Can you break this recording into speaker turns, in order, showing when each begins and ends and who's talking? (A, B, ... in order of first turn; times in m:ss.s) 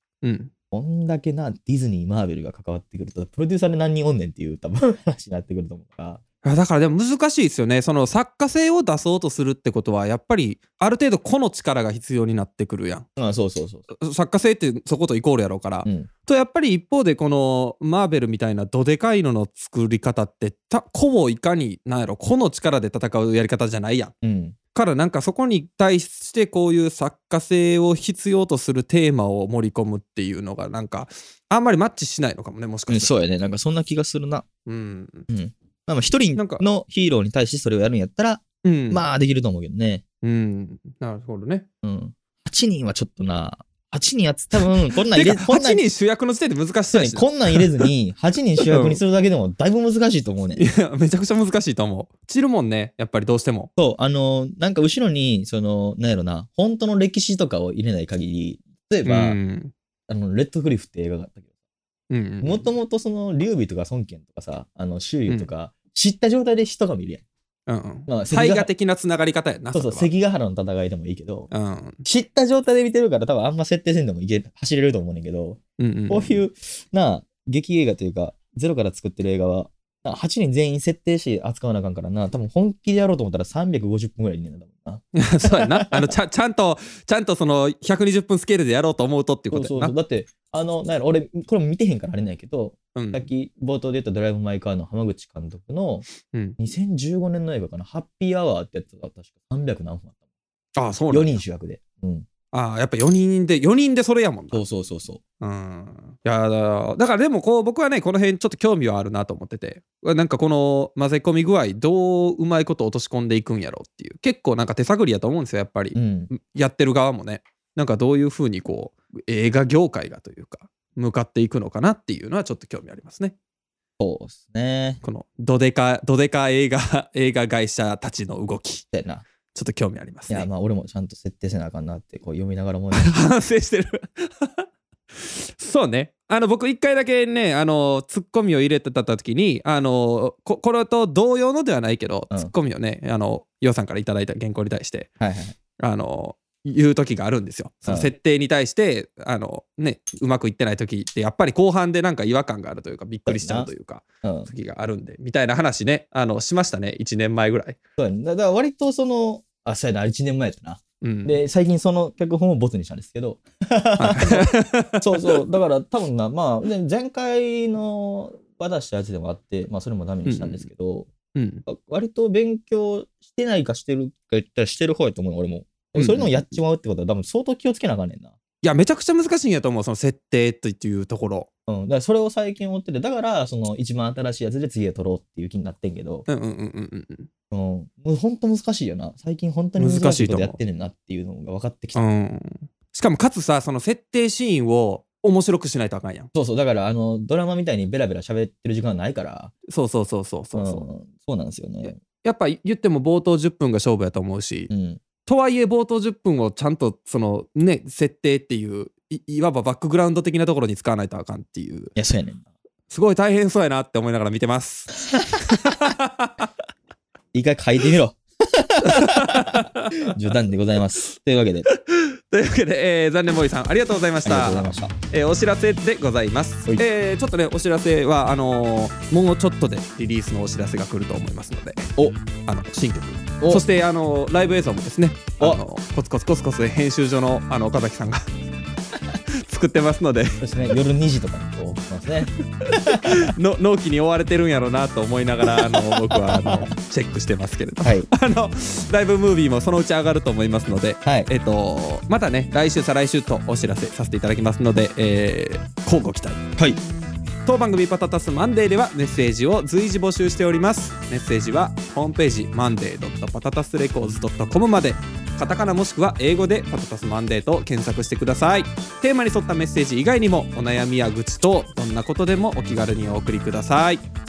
0:00.2-0:00.5 A
0:00.7-0:06.2 B
0:06.4-0:13.1 A
0:13.2-0:13.9 B
0:13.9-0:24.1 A
0:24.2-0:24.6 B
0:24.7-0:33.1 A
0:32.9-0:34.5 B
0:34.7-0:35.3 A
0:35.3-0:40.0 B
0:36.4-0:36.6 A
0:38.6-0:39.0 A
0:40.2-0:41.7 A
0:41.8-0:45.8 B
0:45.1-0:47.9 A
0:46.9-0:50.6 B
0:48.7-0:49.0 A
0:50.6-0:53.7 A
0:53.8-0:59.4 B
0:59.0-0:59.7 A
1:00.1-1:01.5 B
1:02.1-1:02.7 A
1:02.4-1:07.2 B
1:07.7-1:10.1 A
1:08.1-1:08.7 B
1:09.7-1:11.5 B
1:11.5-1:12.0 A
1:12.0-1:15.6 B
1:15.8-1:16.4 A
1:16.1-1:26.1 B
1:25.2-1:30.0 A
1:29.5-1:36.1 B
1:33.0-1:33.2 A
1:36.2-1:36.6 A
1:36.6-1:40.1 B
1:40.8-1:41.4 A
1:41.1-1:42.3 B
1:42.5-1:44.7 A
1:44.5-1:45.2 B
1:45.4-2:03.4 A
1:56.0-1:56.3 B
2:04.0-2:05.0 B
2:05.0-2:08.9 A
2:08.9-2:09.2 B
2:09.5-2:10.5 A
2:10.3-2:13.2 B
2:12.9-2:14.6 A
2:15.2-2:25.1 A
2:25.2-2:25.6 B
2:25.8-2:37.8 A
2:27.9-2:28.1 B
2:33.3-2:33.7 B
2:34.2-2:34.5 B
2:38.0-2:51.1 B
2:41.0-2:41.4 A
2:44.0-2:45.4 A
2:50.3-2:50.7 A
2:51.4-2:51.6 A
2:51.7-2:58.4 B
2:56.0-2:56.5 A
2:58.6-3:01.5 A
3:01.7-3:06.3 B
3:06.3-3:07.3 A
3:07.5-3:12.0 B
3:09.8-3:10.6 A
3:12.0-3:16.3 A
3:16.3-3:19.5 B
3:19.7-3:20.8 A
3:20.5-3:22.0 B
3:21.8-3:24.7 A
3:24.7-3:25.0 B
3:25.2-3:32.0 A
3:32.0-3:32.4 B
3:32.9-3:36.5 A
3:35.0-3:35.5 B
3:37.3-3:41.7 B
3:38.8-3:40.2 A
3:41.7-3:58.3 A
3:44.2-3:44.9 B
3:59.3-4:00.4 A
4:00.4-4:03.3 B
4:02.7-4:16.4 A
4:05.5-4:06.7 B
4:07.8-4:08.1 B
4:17.4-4:34.0 A